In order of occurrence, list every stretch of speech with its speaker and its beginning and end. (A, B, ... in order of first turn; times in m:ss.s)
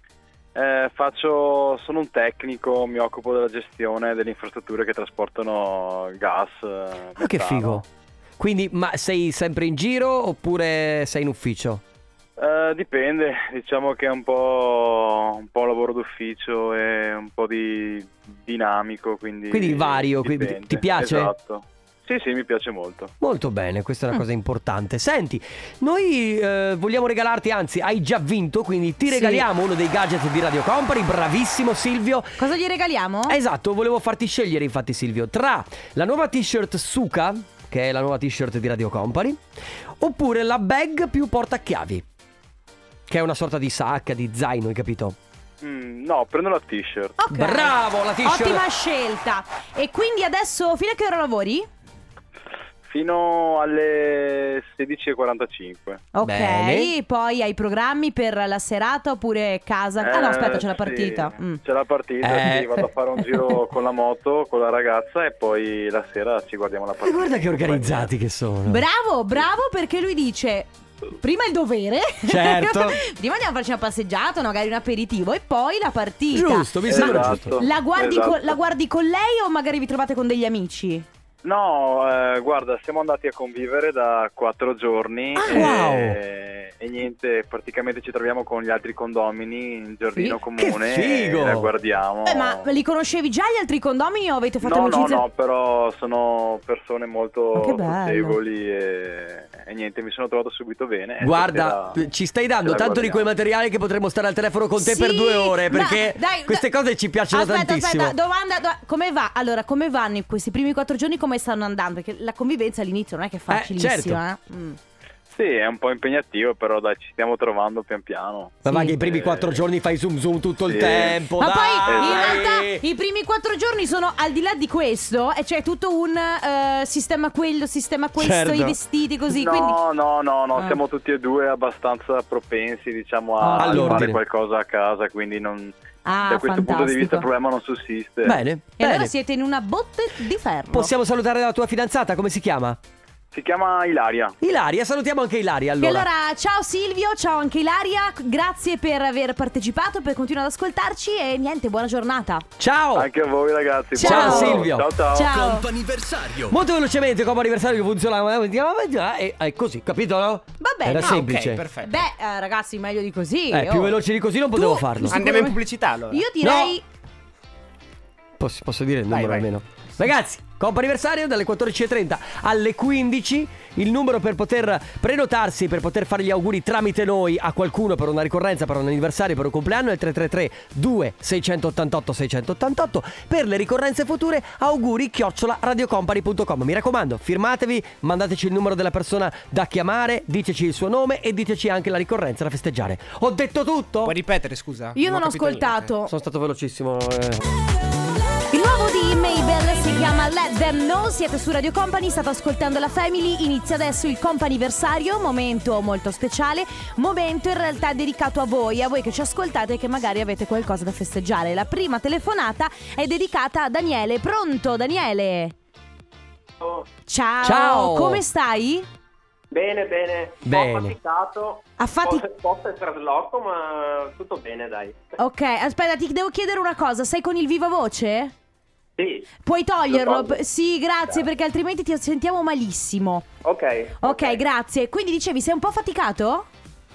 0:00.5-0:07.8 A
0:07.2-0:07.8 B
0:08.4-0:11.8 B
0:12.4-0:23.1 A
0:19.5-0:21.3 B
0:23.2-0:32.4 B
0:29.1-0:29.4 C
0:32.4-0:33.4 C
0:33.3-0:39.4 B
0:40.0-0:42.0 B
0:43.1-0:45.2 B
0:45.6-0:47.2 A
0:47.2-0:51.7 C
0:47.3-0:48.6 B
0:52.8-0:56.0 A
0:56.1-1:01.6 C
0:56.2-0:56.9 B
1:00.0-1:08.1 A
1:02.2-1:02.9 B
1:07.0-1:08.8 B
1:08.7-1:10.7 C
1:11.2-1:21.1 C
1:12.3-1:13.0 B
1:16.3-1:17.6 B
1:16.9-1:18.6 A
1:21.4-1:32.6 A
1:25.4-1:26.2 B
1:25.5-1:25.8 C
1:30.6-1:31.7 B
1:32.2-1:35.2 C
1:34.6-1:42.0 A
1:37.5-1:38.4 C
1:41.2-1:48.2 B
1:42.6-1:43.2 A
1:44.8-1:46.6 C
1:47.3-1:54.8 C
1:53.5-1:54.2 B
1:55.3-1:59.6 A
1:58.6-2:02.8 B
1:58.7-1:59.0 C
2:00.6-2:01.2 A
2:01.4-2:09.8 C
2:01.9-2:02.4 A
2:08.2-2:08.8 B
2:09.3-2:15.7 A
2:10.6-2:10.8 C
2:13.4-2:14.1 C
2:13.6-2:14.2 B
2:16.0-2:17.3 C
2:16.2-2:18.4 A
2:18.2-2:19.1 B
2:18.8-2:20.9 C
2:20.7-2:22.8 B
2:23.3-2:24.4 A
2:24.4-2:26.1 B
2:25.8-2:32.4 C
2:32.6-2:33.1 B
2:32.9-2:35.4 A
2:34.0-2:35.7 C
2:34.0-2:41.6 B
2:40.6-2:44.0 C
2:41.0-2:42.0 D
2:43.5-2:45.2 B
2:44.5-2:46.8 C
2:45.1-2:46.3 D
2:46.4-2:46.7 B
2:48.4-3:14.1 B
2:49.1-2:49.5 D
3:14.0-3:15.9 D
3:14.9-3:16.1 C
3:16.1-3:17.4 B
3:18.5-3:35.5 C
3:36.6-3:36.9 E
3:37.1-3:38.9 C
3:37.4-3:38.2 B
3:39.5-3:45.0 E
3:40.4-3:41.0 B
3:41.8-3:42.2 C
3:45.2-3:48.3 C
3:49.0-3:49.3 E
3:49.4-3:53.3 C
3:49.9-3:50.4 E
3:53.4-3:54.4 E
3:54.0-3:56.5 C